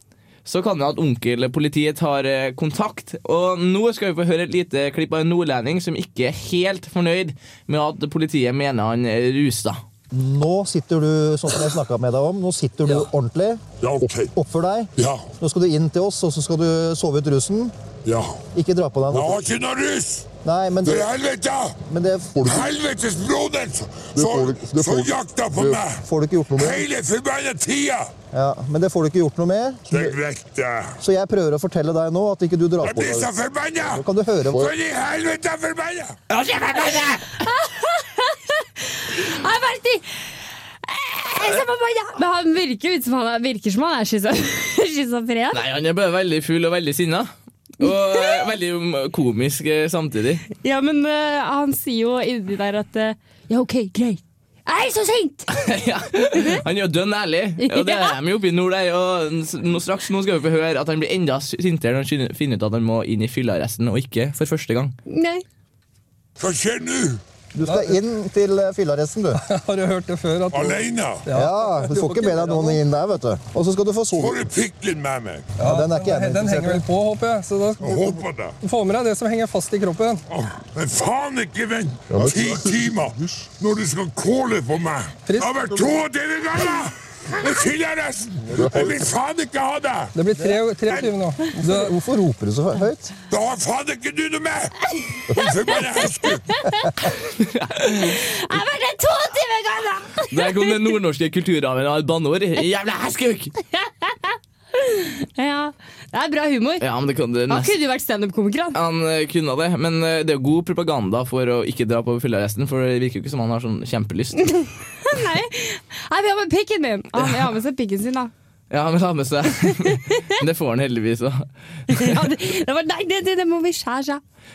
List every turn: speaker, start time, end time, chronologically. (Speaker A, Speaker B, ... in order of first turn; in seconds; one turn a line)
Speaker A: 0.5-9.8
Speaker B: 10.1-17.7
Speaker C: 13.8-14.3
Speaker C: 15.0-15.3
Speaker C: 18.1-18.4
Speaker B: 18.5-19.4
Speaker C: 19.1-20.3
Speaker B: 20.4-21.1
Speaker C: 20.8-21.8
Speaker B: 21.9-22.7
Speaker C: 22.4-28.1
Speaker B: 24.2-26.9
Speaker B: 28.3-30.2
Speaker C: 29.9-31.0
Speaker B: 31.0-34.7
Speaker C: 32.8-36.2
Speaker A: 36.3-37.3
Speaker D: 37.3-40.0
Speaker D: 40.8-45.6
Speaker A: 45.5-47.3
Speaker A: 47.8-50.5
Speaker D: 47.9-48.4
Speaker D: 50.6-55.6
Speaker A: 55.5-65.0
Speaker D: 56.3-56.6
Speaker D: 57.6-58.2
Speaker D: 65.1-65.4
Speaker C: 66.4-67.2
Speaker B: 67.5-69.4
Speaker E: 67.7-68.0
Speaker E: 69.5-72.8
Speaker C: 70.5-71.3
Speaker B: 71.3-74.4
Speaker C: 74.2-75.5
Speaker E: 75.6-80.2
Speaker B: 75.7-76.8
Speaker C: 77.8-78.6
Speaker C: 80.3-90.1
Speaker B: 82.2-82.5
Speaker E: 85.3-85.8
Speaker B: 88.6-88.9
Speaker E: 90.1-92.0
Speaker B: 91.7-93.1
Speaker C: 93.3-94.8
Speaker C: 95.3-96.6
Speaker D: 95.4-97.1
Speaker A: 97.4-98.2
Speaker D: 97.9-100.8
Speaker A: 100.3-103.5
Speaker D: 103.8-106.8
Speaker A: 106.8-107.7
Speaker D: 107.5-108.8
Speaker A: 108.7-114.5
Speaker D: 114.6-118.3
Speaker A: 118.7-122.2
Speaker D: 119.9-120.3
Speaker D: 121.9-124.2